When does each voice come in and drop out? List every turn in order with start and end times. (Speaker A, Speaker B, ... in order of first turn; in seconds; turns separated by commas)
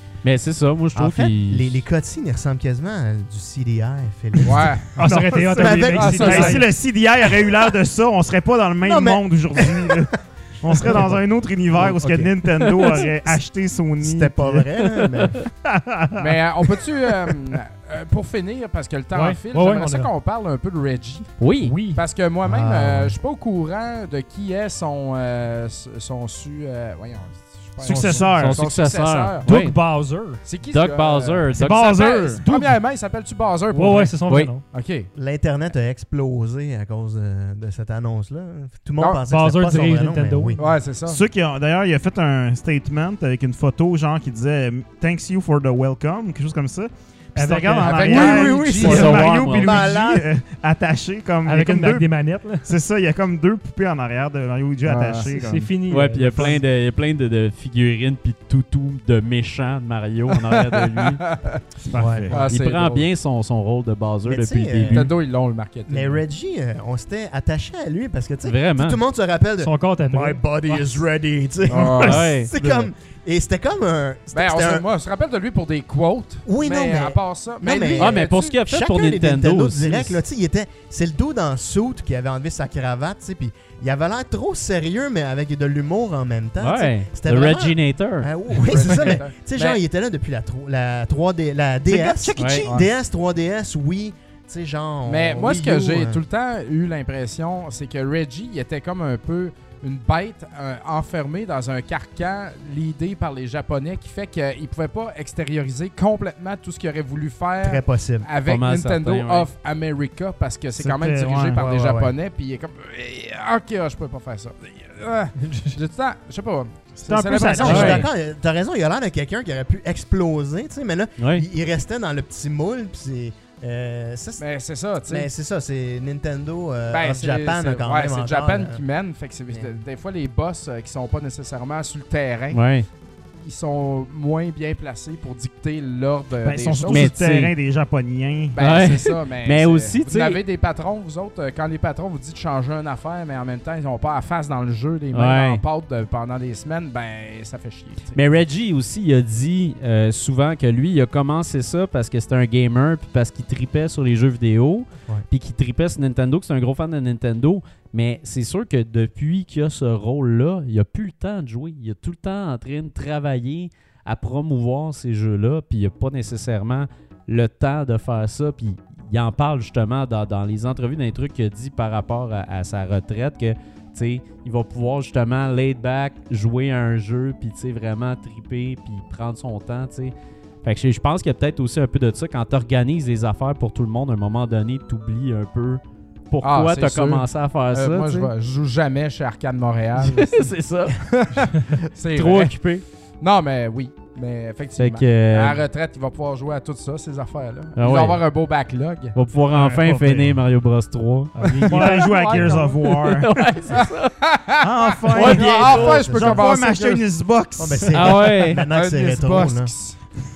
Speaker A: 0.2-1.8, Speaker B: 0.9-6.7, Speaker C: 4.4-5.0, Speaker D: 5.0-6.6, Speaker E: 5.0-14.7, Speaker C: 5.9-6.6, Speaker B: 7.2-7.6, Speaker B: 8.8-10.1, Speaker B: 10.7-11.2, Speaker B: 11.8-12.3, Speaker B: 12.8-13.3, Speaker B: 14.0-15.4, Speaker E: 15.4-17.5, Speaker C: 16.2-21.3, Speaker D: 19.1-20.1, Speaker A: 21.4-21.8, Speaker D: 21.6-22.0, Speaker C: 21.8-29.8, Speaker B: 22.4-23.1, Speaker E: 27.8-28.6, Speaker D: 27.9-28.3, Speaker A: 28.3-29.8, Speaker D: 29.4-30.4, Speaker C: 30.4-35.1, Speaker A: 30.7-31.9, Speaker E: 31.5-32.4, Speaker D: 32.0-32.8, Speaker D: 33.7-34.6, Speaker A: 34.3-34.5, Speaker B: 35.1-40.7, Speaker D: 39.2-40.6, Speaker C: 40.6-41.2, Speaker E: 41.0-55.7, Speaker D: 47.3-48.3, Speaker C: 47.8-49.3, Speaker B: 48.1-50.3, Speaker A: 48.7-49.8, Speaker D: 51.4-52.7, Speaker C: 54.9-55.3, Speaker D: 55.3-56.6, Speaker A: 55.9-61.2, Speaker C: 60.7-61.6, Speaker E: 61.8-62.4, Speaker B: 62.0-62.4, Speaker C: 62.3-63.1, Speaker A: 62.5-65.1, Speaker B: 64.3-65.1, Speaker C: 64.8-66.2, Speaker B: 65.9-74.8, Speaker A: 68.4-69.0, Speaker D: 69.6-71.0, Speaker C: 71.6-72.4, Speaker A: 72.0-72.5, Speaker C: 74.3-78.6, Speaker B: 76.5-96.2, Speaker A: 78.0-80.2, Speaker A: 86.6-89.1, Speaker C: 88.5-89.8, Speaker E: 91.8-92.8, Speaker A: 92.3-92.6, Speaker C: 95.0-118.1, Speaker B: 107.6-108.3, Speaker A: 108.4-109.5, Speaker E: 110.8-111.6, Speaker B: 111.5-112.1, Speaker D: 115.4-115.8, Speaker E: 117.0-118.0, Speaker B: 117.5-124.4, Speaker A: 117.6-118.0, Speaker A: 121.2-121.4, Speaker C: 124.4-125.3, Speaker B: 125.1-128.8, Speaker C: 126.9-132.6, Speaker A: 132.5-132.9, Speaker C: 133.4-137.1, Speaker E: 136.4-138.6, Speaker A: 136.8-137.5, Speaker C: 138.5-148.2, Speaker A: 138.6-140.4, Speaker A: 145.1-145.6, Speaker A: 148.1-180.1, Speaker A: 180.6-188.3, Speaker C: 186.4-190.5, Speaker A: 190.0-191.0, Speaker C: 191.0-192.5, Speaker A: 192.1-192.8, Speaker C: 193.2-199.1, Speaker A: 194.8-195.6, Speaker A: 197.8-198.2, Speaker A: 199.1-201.9, Speaker E: 199.5-200.4, Speaker D: 201.3-202.8, Speaker E: 201.5-203.3, Speaker C: 201.8-202.5, Speaker A: 203.0-204.1, Speaker C: 203.7-207.0, Speaker E: 204.6-208.2, Speaker B: 205.1-206.6, Speaker B: 207.6-209.7, Speaker A: 207.9-208.6, Speaker C: 208.5-210.0